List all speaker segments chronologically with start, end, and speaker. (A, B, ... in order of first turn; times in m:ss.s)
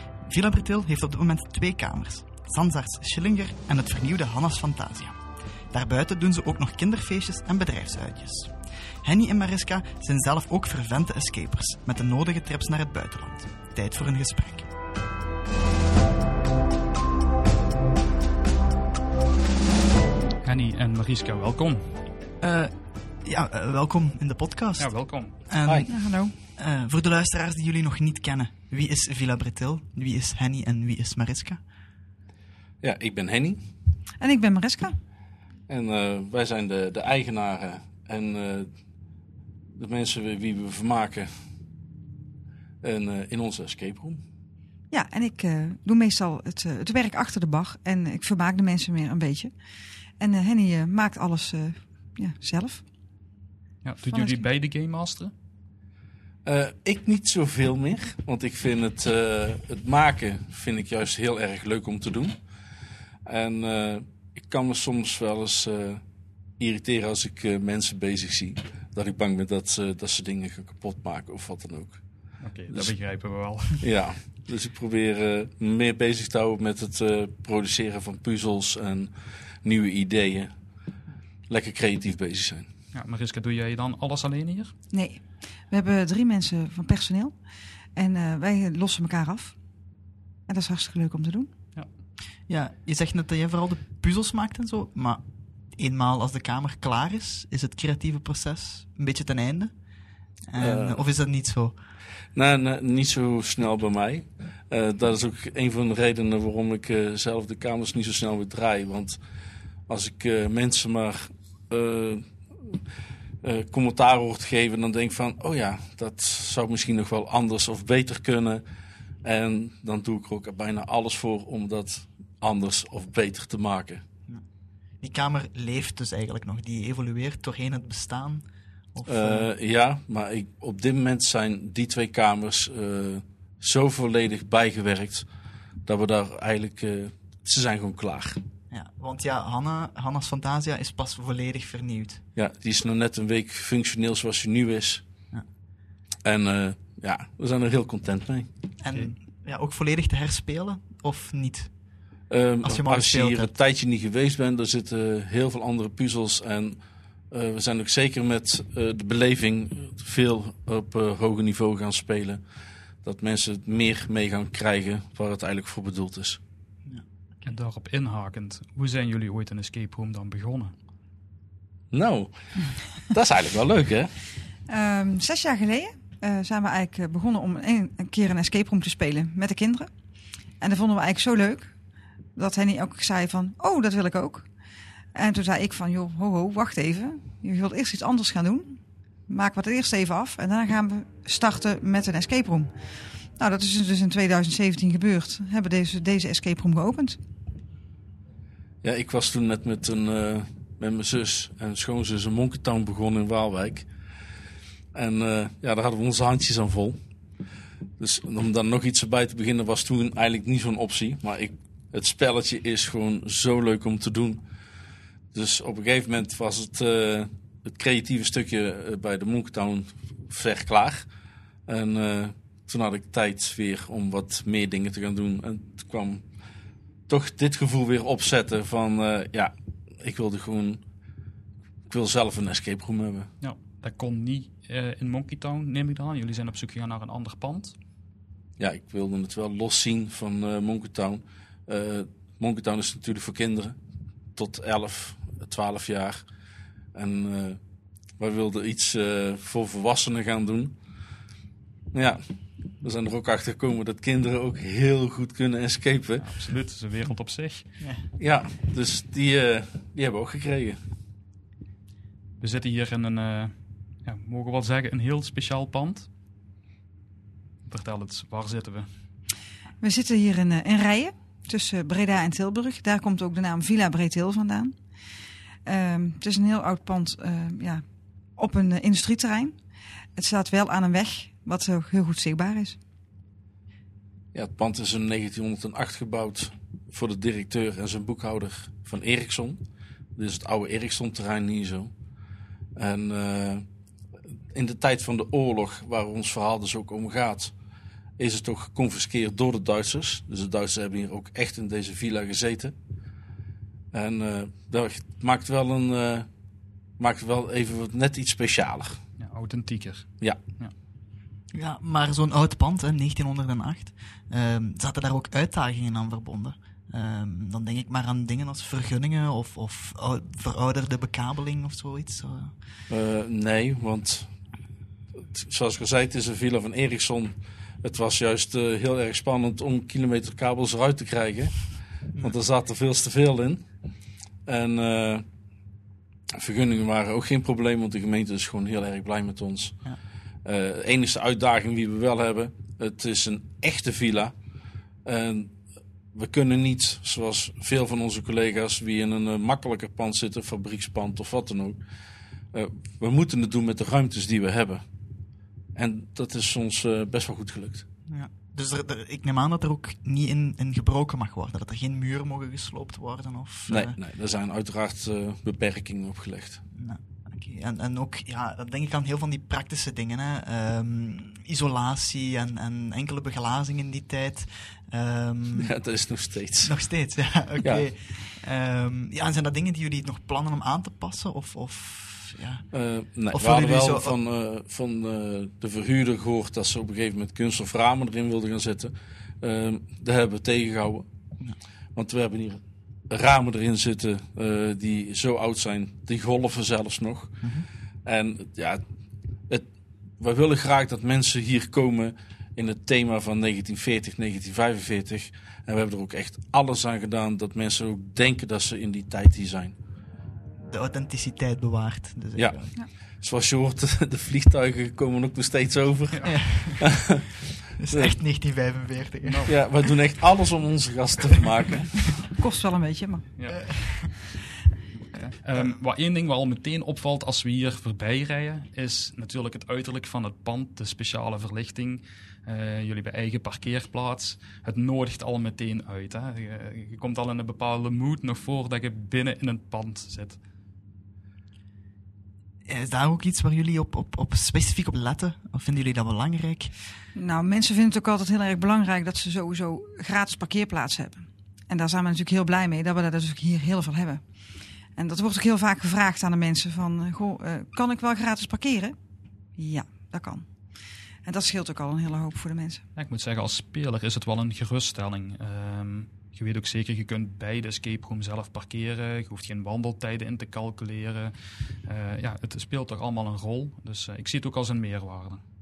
0:00.2-0:05.2 A
0:05.7-0:14.7 A
0:20.4-0:22.0 B
0:22.4-0:31.6 A
0:24.8-0:25.4 B
0:25.6-0:25.9 C
0:25.9-0:26.3 D
0:32.8-0:33.6 C
0:34.2-0:35.0 D
0:35.7-0:38.7 C
0:39.8-0:41.3 C
0:42.8-0:44.2 C
0:44.9-0:49.5 D
0:50.2-0:52.8 D
0:53.8-0:55.3 B
0:54.0-0:54.4 D
0:56.4-1:02.4 C
1:03.2-1:06.0 C
1:06.6-1:12.0 C
1:12.4-1:13.8 B
1:12.7-1:13.0 C
1:13.8-1:20.5 C
1:21.5-1:22.6 C
1:22.9-1:24.7 B
1:24.9-1:27.4 D
1:27.9-1:29.6 D
1:30.5-1:31.5 D
1:32.5-1:39.7 A
1:40.4-1:41.7 A
1:40.6-1:41.0 C
1:42.3-1:49.2 C
1:49.9-1:52.8 C
1:53.4-1:58.6 C
1:59.2-2:04.0 C
2:05.0-2:09.5 A
2:09.0-2:15.3 C
2:15.8-2:18.4 C
2:18.7-2:22.2 A
2:22.4-2:25.0 C
2:26.2-2:28.5 C
2:28.8-2:31.7 A
2:32.3-2:36.8 C
2:32.6-2:33.5 A
2:37.3-2:42.4 C
2:43.0-2:46.4 C
2:47.4-2:50.7 B
2:51.9-2:54.1 C
2:54.7-2:59.9 D
3:00.6-3:01.7 D
3:02.4-3:04.5 D
3:05.1-3:12.7 D
3:13.3-3:17.2 D
3:18.8-3:23.9 C
3:24.9-3:27.0 C
3:28.0-3:34.4 C
3:35.3-3:41.1 C
3:41.7-3:46.2 C
3:47.1-3:50.8 C
3:51.9-3:53.3 C
3:53.4-3:57.7 B
3:58.6-4:03.8 C
4:04.4-4:06.2 C
4:06.9-4:07.6 C
4:08.2-4:10.7 C
4:11.9-4:12.2 C
4:12.8-4:16.4 C
4:16.2-4:17.7 B
4:17.8-4:18.1 A
4:18.2-4:20.8 C
4:22.4-4:26.1 B
4:27.6-4:28.9 B
4:29.8-4:34.8 D
4:35.6-4:37.8 D
4:38.4-4:39.6 D
4:40.2-4:42.8 D
4:44.3-4:49.6 C
4:50.2-4:51.9 C
4:52.8-4:53.6 C
4:54.5-4:57.5 C
4:58.2-5:02.7 C
5:03.9-5:06.3 C
5:07.0-5:09.0 C
5:09.2-5:10.7 B
5:11.5-5:22.5 A
5:22.9-5:24.3 C
5:25.2-5:33.6 C
5:34.4-5:35.2 C
5:36.3-5:39.8 C
5:40.4-5:44.3 C
5:45.0-5:45.6 C
5:46.1-5:51.8 C
5:52.5-5:54.8 C
5:55.7-5:57.8 C
5:58.1-6:04.0 A
6:03.7-6:06.6 C
6:06.7-6:15.7 A
6:15.5-6:16.7 C
6:16.6-6:22.6 A
6:22.7-6:31.1 C
6:23.3-6:24.2 A
6:31.9-6:37.5 C
6:37.4-6:37.7 A
6:38.0-6:38.8 C
6:40.2-6:49.8 C
6:50.7-6:52.7 A
6:52.4-6:52.7 C
6:53.2-6:57.3 C
6:56.2-6:57.2 A
6:57.8-6:59.7 A
6:57.9-6:58.2 C
6:59.2-6:59.5 B
6:59.5-7:02.2 C
7:02.4-7:03.3 D
7:03.4-7:04.2 B
7:03.5-7:04.3 A
7:05.1-7:20.4 B
7:05.5-7:05.8 A
7:22.6-7:26.7 A
7:27.1-7:34.2 D
7:34.9-7:39.0 D
7:39.6-7:40.5 D
7:41.2-7:42.8 D
7:42.9-7:55.4 B